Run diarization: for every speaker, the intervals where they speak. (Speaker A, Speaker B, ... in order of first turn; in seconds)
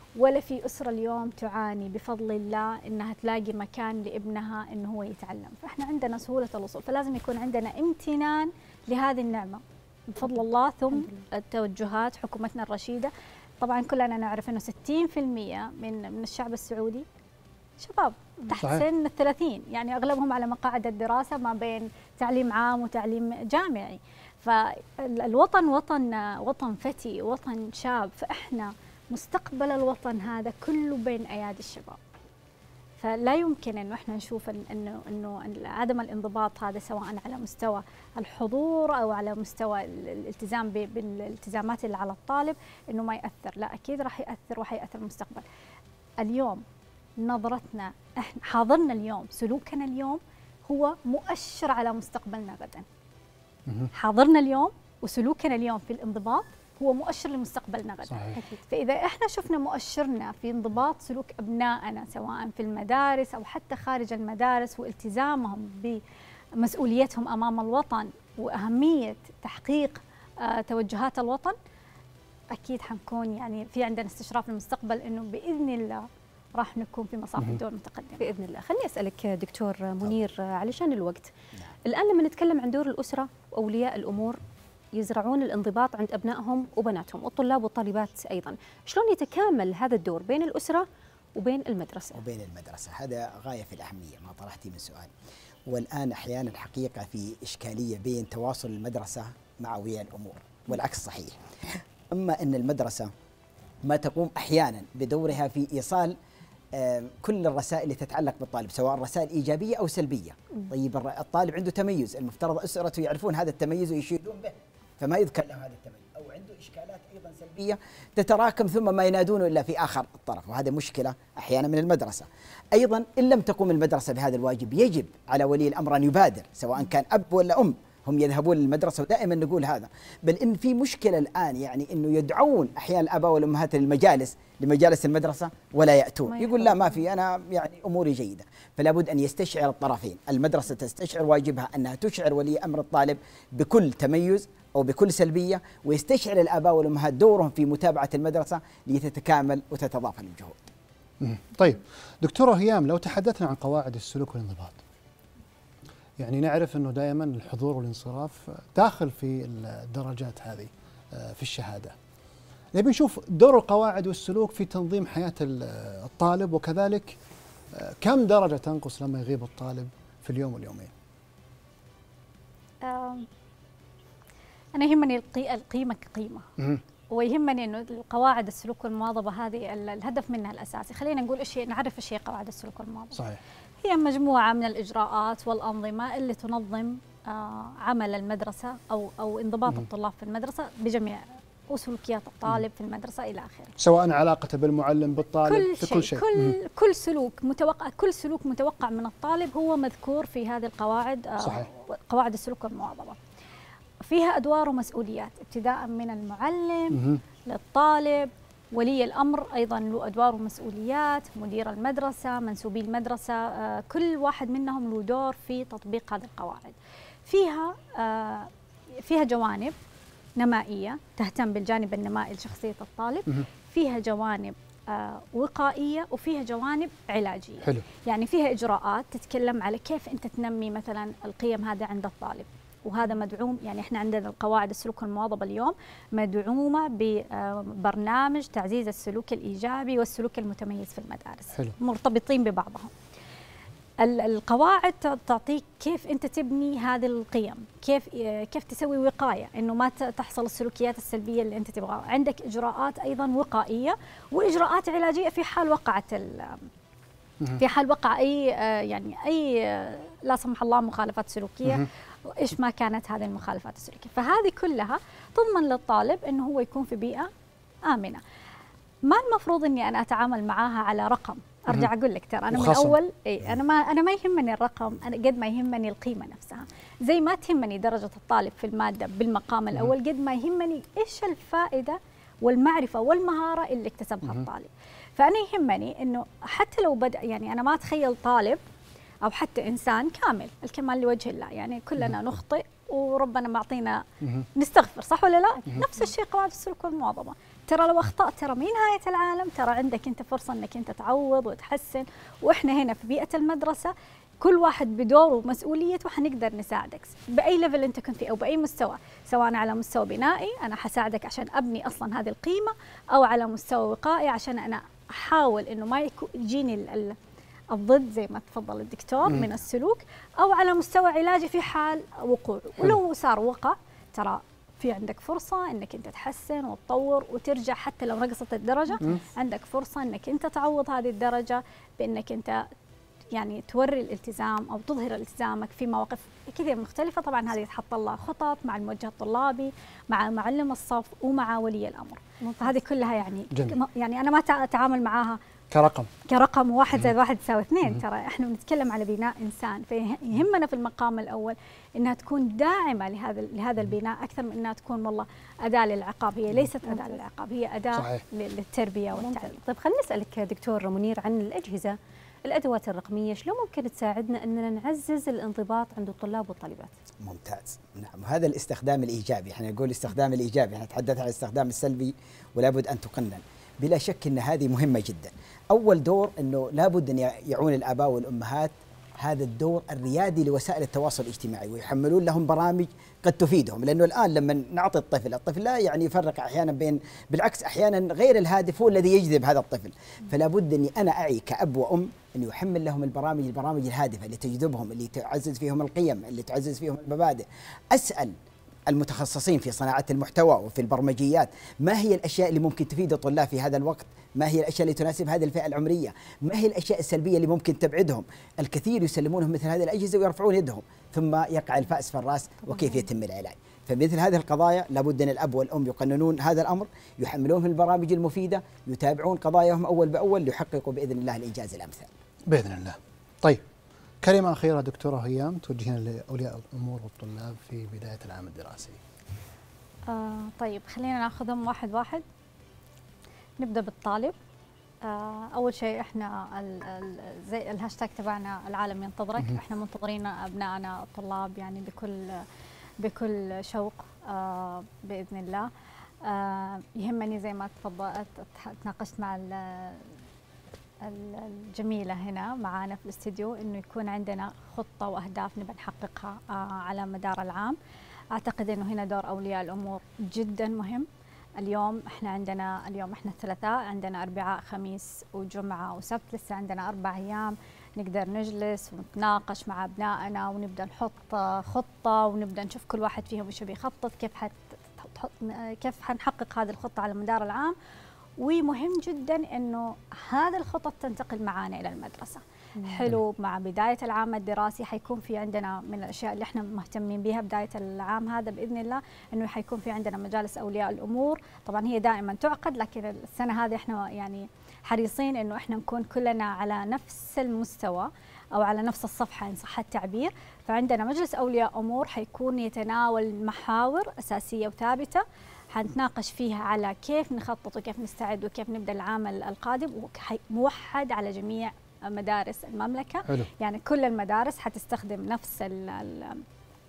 Speaker A: 0.1-9.6, 10.2-17.1, 17.8-32.0, 33.0-45.4, 46.2-46.6, 47.2-52.9, 53.9-66.0, 66.6-71.5, 72.5-78.3, 172.8-173.3, 174.8-176.4, 177.1-183.2, 183.8-193.7, 195.4-203.2, 204.0-216.8, 217.3-219.8, 220.4-242.9, 244.0-256.7, 257.6-267.3, 267.9-268.2, 269.0-288.6, 289.2-294.0, 294.5-317.1, 317.7-332.7, 333.3-345.4, 346.3-359.5, 430.1-432.2, 433.6-434.3, 435.0-442.4, 443.0-445.7, 446.2-450.1, 451.0-457.8, 458.3-461.1, 461.6-477.7, 478.4-516.4
Speaker B: 10.9-11.2, 58.3-58.6, 78.2-81.3, 81.8-84.4, 84.9-92.2, 136.3-137.0, 342.4-342.7, 356.9-357.2, 359.1-366.9
Speaker C: 53.7-53.9, 58.1-58.4, 151.2-154.8, 156.2-161.9, 162.7-167.2, 167.7-170.9, 183.1-183.4, 193.8-196.6, 201.4-201.7, 206.9-207.2, 272.5-273.0, 343.5-343.8, 345.7-346.1, 357.9-358.2, 422.5-423.6, 424.2-429.0
Speaker D: 92.1-95.1, 95.7-103.1, 103.8-106.2, 106.7-150.6, 367.2-398.3, 398.9-422.1